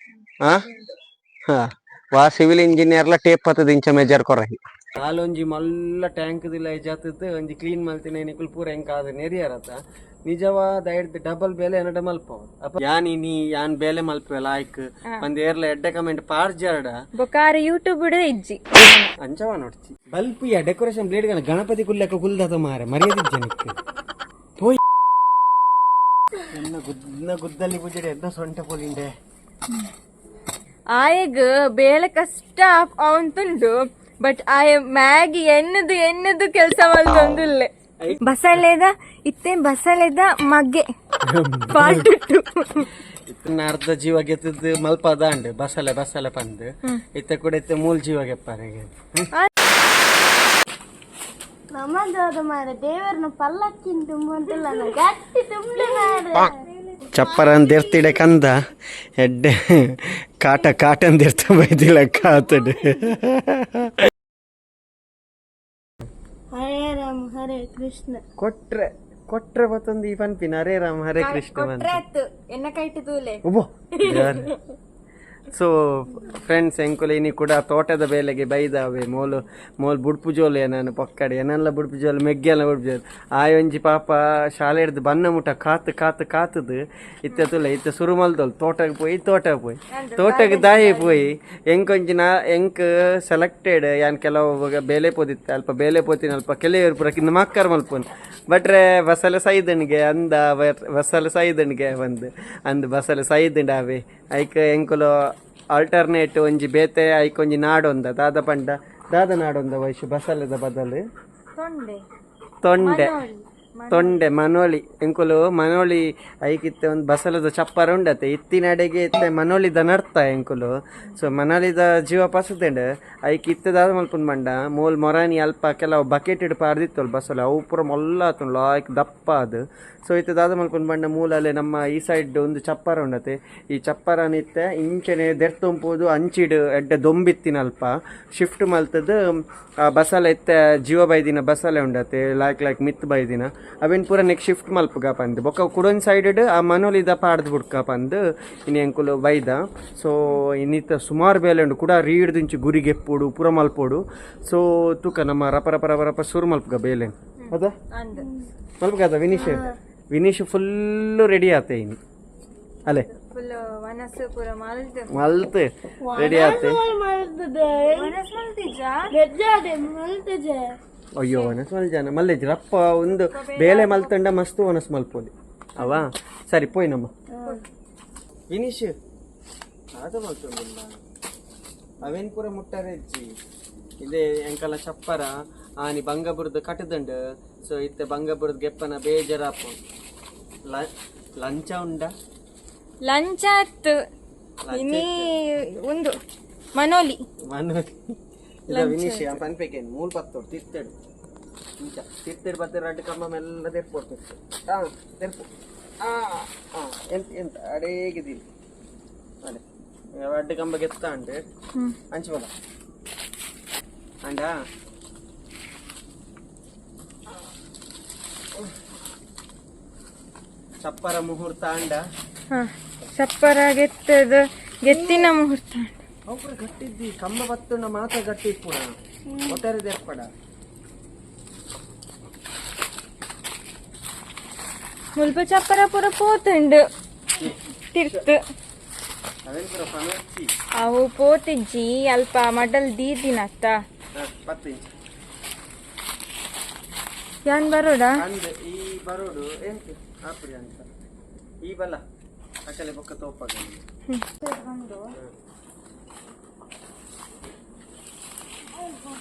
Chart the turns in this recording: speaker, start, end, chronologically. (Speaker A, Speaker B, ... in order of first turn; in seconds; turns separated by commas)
Speaker A: 0.4-0.7, Speaker A: 1.5-17.0, Speaker B: 17.2-18.6, Speaker A: 18.8-23.8, Speaker A: 26.4-29.1, Speaker B: 31.0-40.9, Speaker A: 37.1-37.5, Speaker A: 38.0-38.6, Speaker A: 41.2-42.1, Speaker B: 41.7-42.9, Speaker A: 43.3-49.3, Speaker C: 51.7-56.6, Speaker B: 55.8-57.4, Speaker A: 57.1-58.5, Speaker C: 57.2-58.1, Speaker A: 59.2-64.0, Speaker C: 66.5-68.2, Speaker A: 68.4-72.0, Speaker B: 71.2-73.4, Speaker A: 73.5-74.5, Speaker B: 74.0-74.5, Speaker A: 75.5-105.1, Speaker B: 89.9-91.3, Speaker A: 105.7-111.0, Speaker B: 111.6-112.0, Speaker A: 112.6-113.2, Speaker B: 112.8-114.2, Speaker A: 113.9-139.2, Speaker A: 139.8-157.7, Speaker B: 157.4-158.3, Speaker C: 158.2-158.5, Speaker A: 158.8-162.0, Speaker C: 159.4-159.8, Speaker B: 163.1-165.2, Speaker A: 165.1-166.8, Speaker C: 166.0-168.2, Speaker B: 167.9-169.1, Speaker C: 169.1-170.8, Speaker A: 171.2-177.1, Speaker B: 171.3-171.6, Speaker B: 173.3-174.1, Speaker C: 177.3-177.6, Speaker A: 178.5-178.9, Speaker A: 180.0-180.9, Speaker A: 182.0-183.3, Speaker A: 184.0-189.8, Speaker A: 190.7-192.1, Speaker B: 193.1-193.9, Speaker A: 194.7-195.3, Speaker B: 194.7-196.2, Speaker B: 196.8-197.2, Speaker A: 197.5-198.1, Speaker A: 198.7-200.9, Speaker B: 198.7-199.4, Speaker A: 201.8-205.5, Speaker A: 206.0-208.4, Speaker A: 210.2-211.4, Speaker A: 212.1-212.5, Speaker A: 214.2-214.5, Speaker A: 220.8-222.0, Speaker B: 222.5-226.0, Speaker C: 224.9-225.3, Speaker A: 226.3-228.9, Speaker C: 229.3-229.6, Speaker A: 229.5-230.3, Speaker B: 235.2-236.8, Speaker A: 237.4-238.2, Speaker B: 237.9-238.4, Speaker A: 239.5-240.5, Speaker B: 240.8-243.8, Speaker A: 244.2-244.9, Speaker B: 247.5-248.2, Speaker A: 248.2-250.9, Speaker A: 251.6-252.0, Speaker A: 252.7-253.8, Speaker B: 254.1-255.1